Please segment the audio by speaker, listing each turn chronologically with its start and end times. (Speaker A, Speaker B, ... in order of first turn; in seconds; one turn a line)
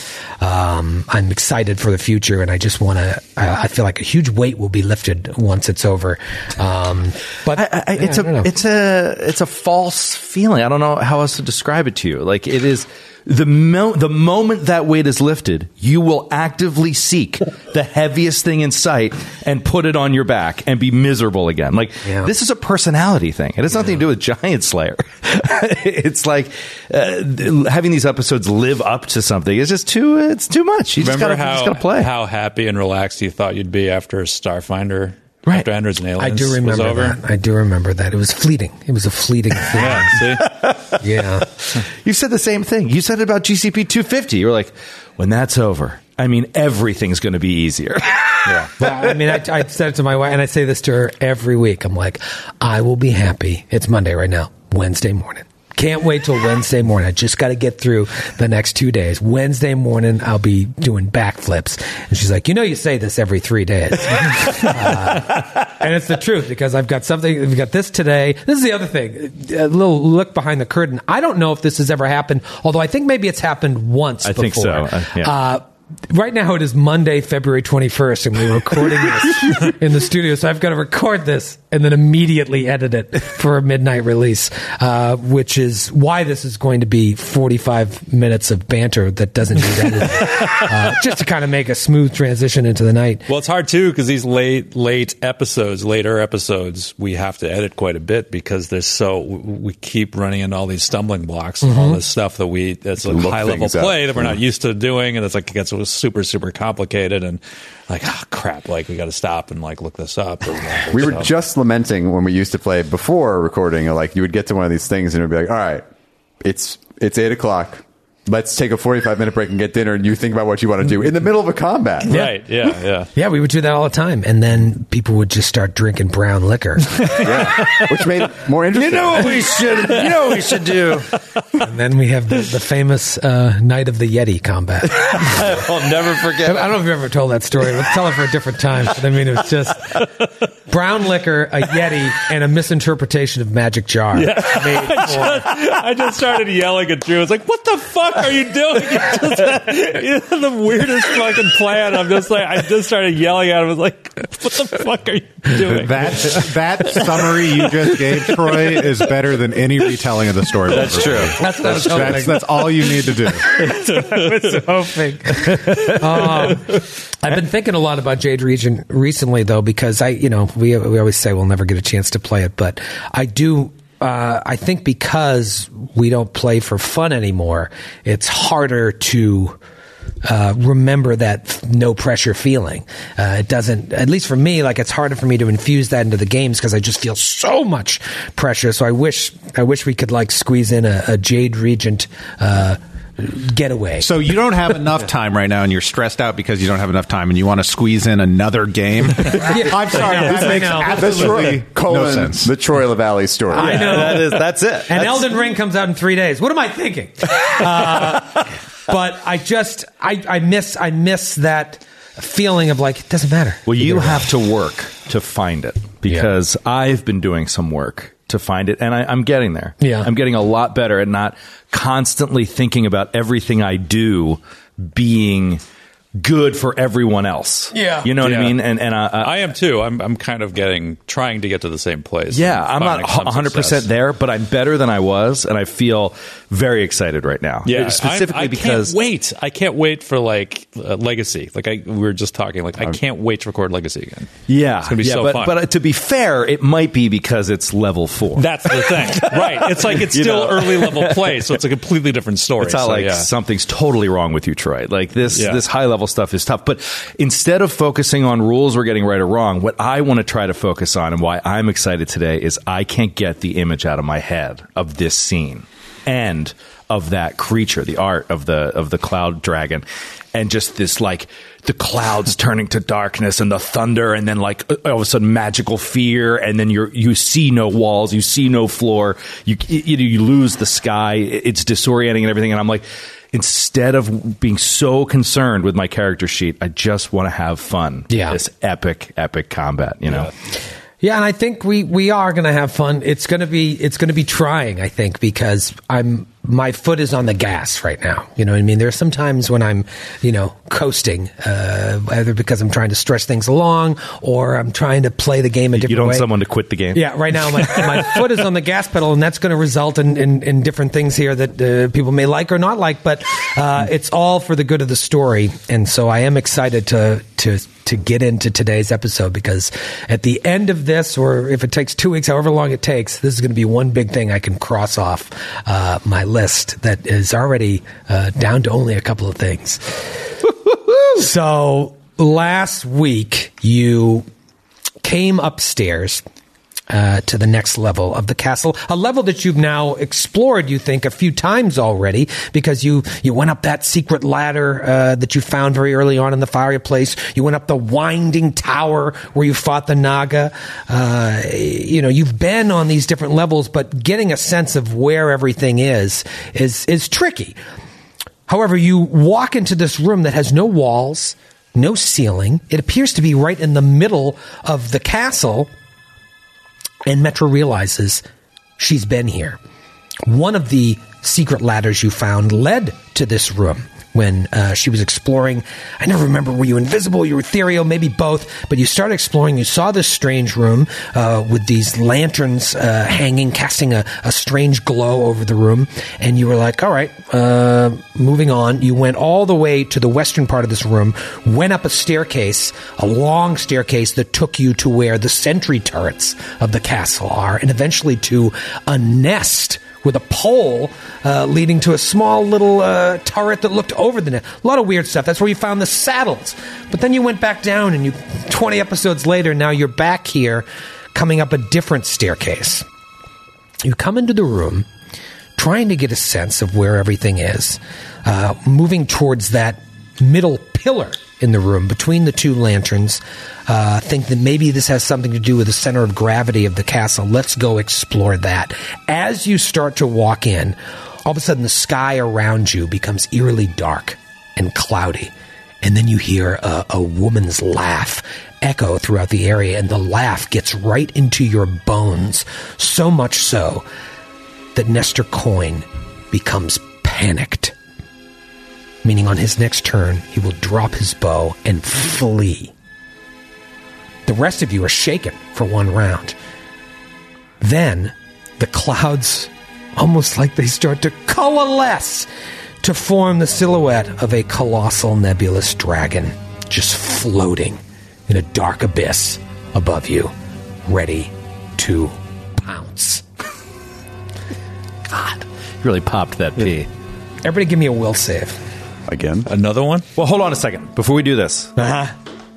Speaker A: 0.4-8.5
Speaker B: 7.5-32.1
Speaker A: 22.1-22.3
Speaker C: 31.0-37.2
Speaker A: 36.2-40.2
Speaker C: 39.8-40.5
Speaker B: 40.4-41.0
Speaker A: 41.0-41.5
Speaker B: 41.6-48.9
Speaker C: 48.5-48.7
Speaker A: 48.8-93.2
Speaker B: 74.2-75.3
Speaker C: 93.3-111.3
Speaker A: 101.6-102.0
Speaker D: 103.0-104.4
Speaker D: 110.9-115.9
Speaker D: 116.4-122.3
Speaker C: 122.1-123.1
Speaker A: 123.2-127.1
Speaker D: 127.1-129.3
Speaker B: 128.7-131.1
Speaker C: 129.3-130.3
Speaker A: 131.6-135.4
Speaker B: 135.0-136.8
Speaker A: 136.4-140.0
Speaker A: 140.7-145.5
Speaker C: 144.2-158.0
Speaker E: 155.6-163.4
Speaker B: 160.7-162.2
Speaker A: 161.4-162.4
Speaker A: 163.6-179.6
Speaker C: 163.7-164.6
Speaker A: 180.2-194.1
Speaker E: 194.0-202.6
Speaker A: 199.5-201.0
Speaker D: 200.8-204.2
Speaker A: 203.5-214.3
Speaker B: 203.6-205.3
Speaker B: 213.7-225.6
Speaker A: 219.8-220.1
Speaker B: 226.2-229.4
Speaker A: 227.7-228.1
Speaker C: 228.2-228.6
Speaker C: 229.2-233.9
Speaker B: 232.3-238.9
Speaker C: 237.7-244.3
Speaker B: 244.5-251.5
Speaker C: 244.8-245.6
Speaker C: 248.4-253.3
Speaker B: 252.6-290.3
Speaker C: 255.3-255.6
Speaker A: 288.1-288.4
Speaker A: 291.0-306.3
Speaker B: 305.8-308.1
Speaker A: 306.9-330.0
Speaker A: 331.1-334.3
Speaker A: 335.0-336.2
Speaker A: 336.9-357.6
Speaker A: 358.5-365.7
Speaker A: 367.1-368.2
Speaker A: 368.8-369.6
Speaker A: 370.2-412.9
Speaker A: 413.8-414.9
Speaker A: 415.6-443.9
Speaker A: 444.8-447.8
Speaker A: 449.0-452.7
Speaker A: 454.3-456.4
Speaker A: 457.6-462.3
Speaker A: 462.8-470.3
Speaker A: 470.9-473.2
Speaker B: 475.1-476.9
Speaker A: 477.4-478.6
Speaker D: 479.1-479.5
Speaker C: 479.5-480.1
Speaker B: 480.2-481.7
Speaker A: 481.8-482.1